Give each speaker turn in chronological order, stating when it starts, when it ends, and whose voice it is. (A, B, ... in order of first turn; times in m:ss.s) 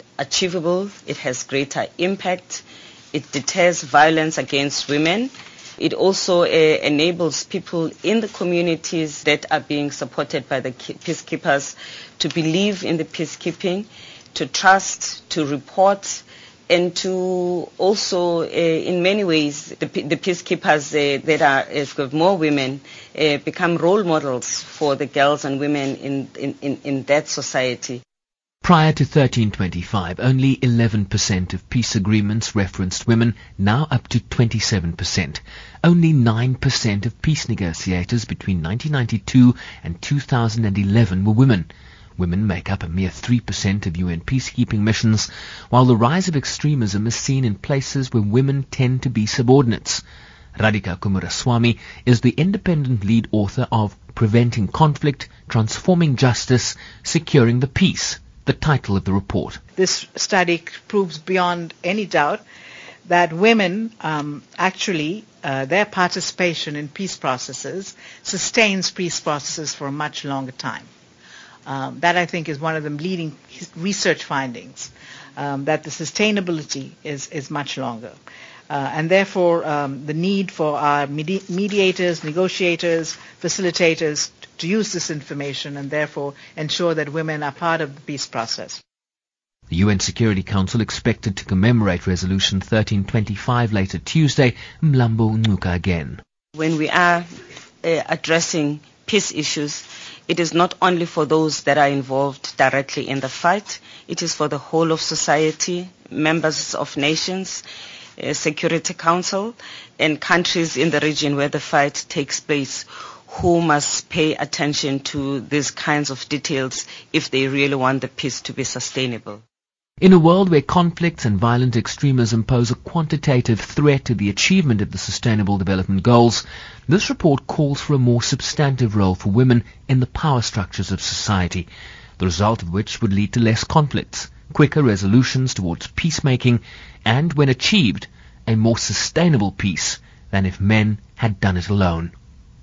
0:00.2-0:28.0 A
0:28.6-0:50.0 B
0:50.6-0:59.6 B
0:59.8-1:02.4 C
1:03.0-1:10.9 C
1:11.7-1:18.2 C
1:18.7-1:28.8 C
1:29.7-1:36.2 B
1:36.6-1:37.3 A
1:37.8-1:47.6 A
1:48.2-1:59.4 A
2:00.0-2:11.7 B
2:12.2-2:22.1 B